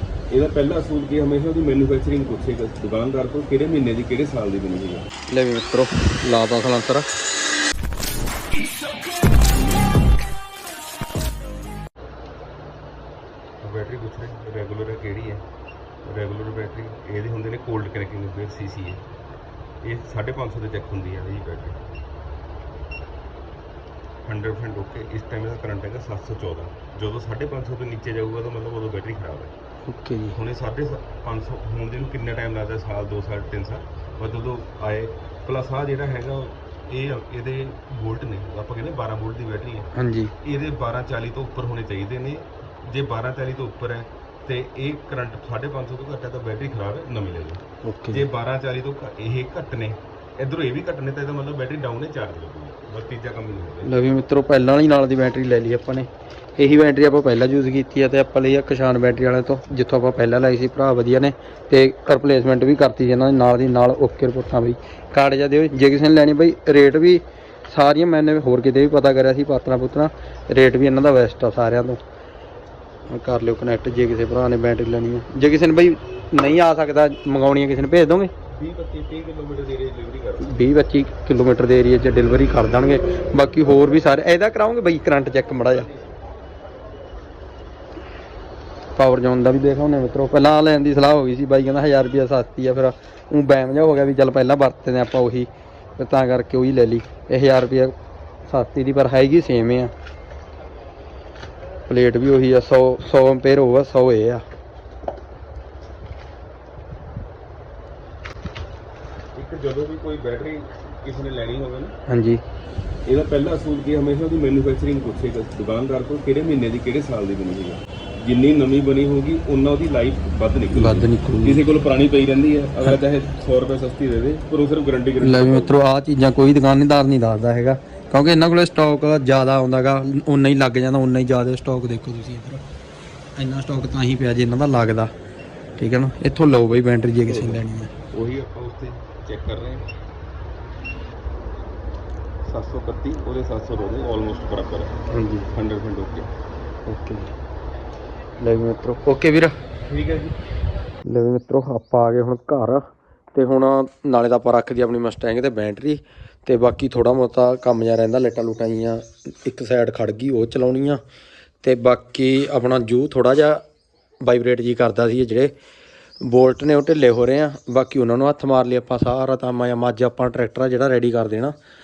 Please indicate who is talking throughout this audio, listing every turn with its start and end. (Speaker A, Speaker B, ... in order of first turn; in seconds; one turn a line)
Speaker A: 0.3-5.1
Speaker B: 5.3-7.1
Speaker A: 13.6-15.4
Speaker A: 16.0-19.0
Speaker A: 19.8-22.0
Speaker A: 24.2-29.5
Speaker B: 29.9-30.4
Speaker A: 30.3-39.9
Speaker B: 40.0-40.3
Speaker A: 40.4-53.9
Speaker B: 47.8-48.2
Speaker B: 53.8-72.0
Speaker B: 73.1-78.3
Speaker A: 78.5-80.6
Speaker B: 80.4-85.9
Speaker B: 89.0-97.9
Speaker B: 98.5-99.9
Speaker B: 101.9-104.4
Speaker A: 109.3-111.9
Speaker B: 112.1-112.4
Speaker A: 113.0-125.7
Speaker B: 120.7-121.6
Speaker B: 125.2-132.6
Speaker B: 133.3-135.1
Speaker B: 135.8-137.9
Speaker A: 137.2-137.6
Speaker A: 138.1-139.9
Speaker A: 142.4-146.3
Speaker B: 145.1-145.5
Speaker B: 146.9-147.3
Speaker B: 148.4-149.5
Speaker A: 149.8-150.3
Speaker B: 151.0-161.0
Speaker B: 161.6-163.6
Speaker B: 164.2-165.5
Speaker B: 166.2-171.5